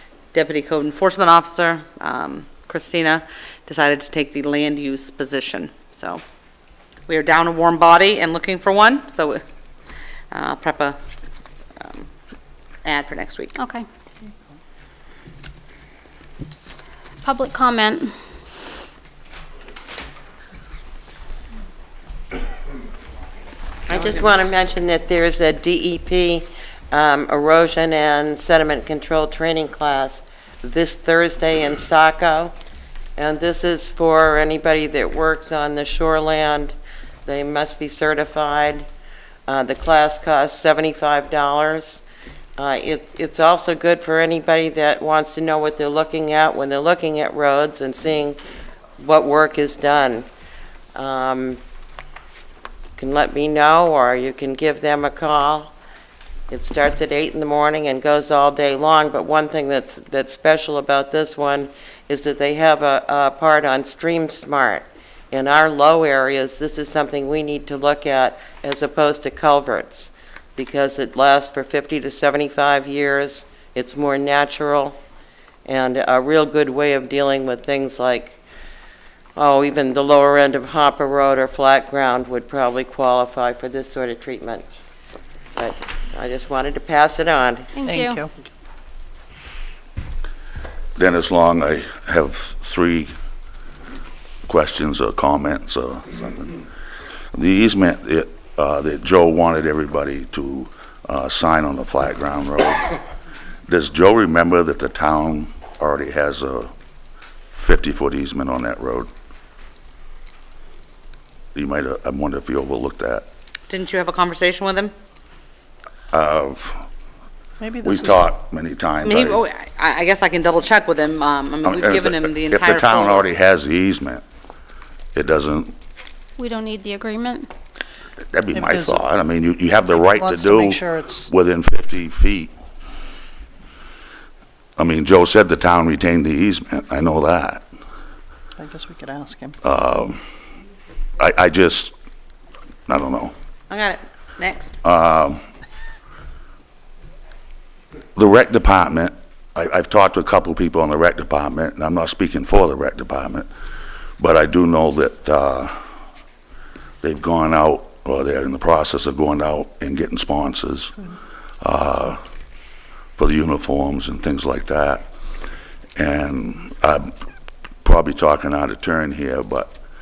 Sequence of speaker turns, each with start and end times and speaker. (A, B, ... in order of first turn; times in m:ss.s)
0:00.3-0:06.2 A
0:07.1-0:09.4 A
0:10.3-0:11.0 A
0:11.8-0:12.1 A
0:12.8-0:13.5 A
0:13.5-0:13.8 B
0:17.2-0:18.1 B
0:23.9-0:32.5 C
0:33.2-0:36.7 C
0:37.2-0:38.8 C
0:39.5-0:42.0 C
0:42.6-0:48.4 C
0:49.0-0:50.3 C
0:50.9-0:51.6 C
0:53.0-0:55.7 C
0:56.5-1:15.0 C
1:15.6-1:18.4 C
1:19.4-1:24.7 C
1:25.6-1:27.7 C
1:27.8-1:28.2 B
1:27.8-1:28.3 D
1:31.0-1:33.1 E
1:34.5-1:36.6 E
1:37.3-1:43.0 E
1:43.7-1:46.7 E
1:47.5-1:49.1 E
1:51.5-1:53.2 E
1:53.7-1:54.9 A
1:56.1-1:56.8 E
1:57.6-1:58.3 D
1:57.8-1:59.4 E
1:59.0-2:03.2 A
2:01.6-2:04.2 E
2:05.1-2:05.7 E
2:06.4-2:07.5 B
2:08.3-2:12.5 E
2:08.5-2:09.0 D
2:09.8-2:11.3 D
2:14.8-2:17.6 E
2:18.6-2:19.6 D
2:19.6-2:20.2 E
2:21.2-2:21.9 E
2:22.9-2:23.3 E
2:23.7-2:24.7 A
2:24.8-2:25.4 E
2:28.1-2:33.5 E
2:34.2-2:35.8 E
2:37.0-2:40.9 E
2:41.6-2:42.2 E
2:43.2-2:45.1 E
2:46.0-2:47.1 E
2:47.8-2:49.8 E